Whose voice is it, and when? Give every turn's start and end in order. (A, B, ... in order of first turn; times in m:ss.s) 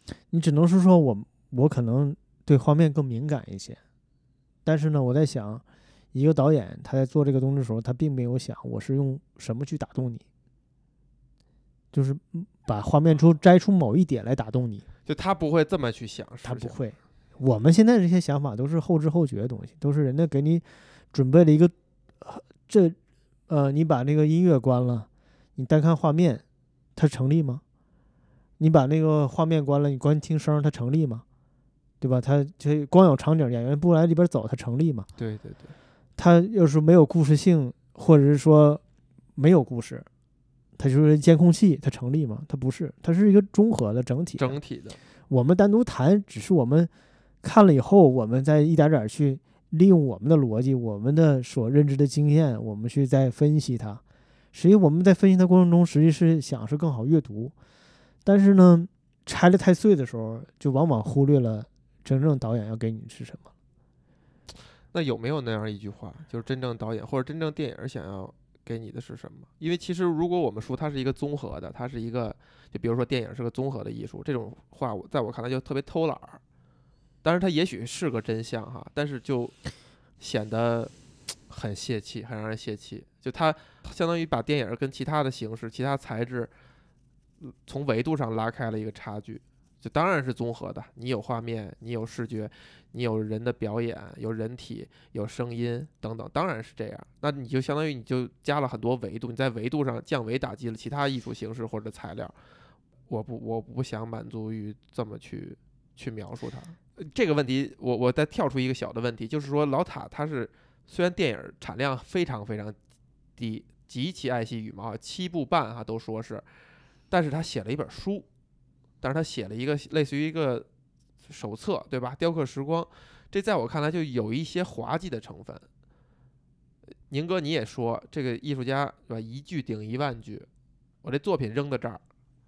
0:00.3-0:03.8 A
0:04.6-0:10.2 A
0:11.9-0:14.8 A
0:15.0-0:16.8 B
0:16.4-0:23.0 A
0:23.5-0:26.4 A
0:27.0-0:27.6 A
0:28.6-0:31.2 A
0:32.0-0:35.1 A
0:35.2-0:35.7 B
0:36.2-0:38.8 A
0:39.4-0:40.1 A
0:40.8-0:44.6 A
0:44.4-0:45.0 B
0:45.3-0:46.9 A
0:47.4-0:54.0 A
0:54.5-0:57.5 A
0:58.2-1:03.5 A
1:04.9-1:16.4 B
1:17.2-1:19.6 B
1:20.2-1:20.9 B
1:21.5-1:26.5 B
1:27.4-1:42.3 B
1:43.1-1:52.8 B
1:53.4-1:56.4 B
1:57.1-1:58.2 B
1:59.0-2:00.7 B
2:01.2-2:05.6 B
2:07.1-2:10.5 B
2:11.0-2:12.0 B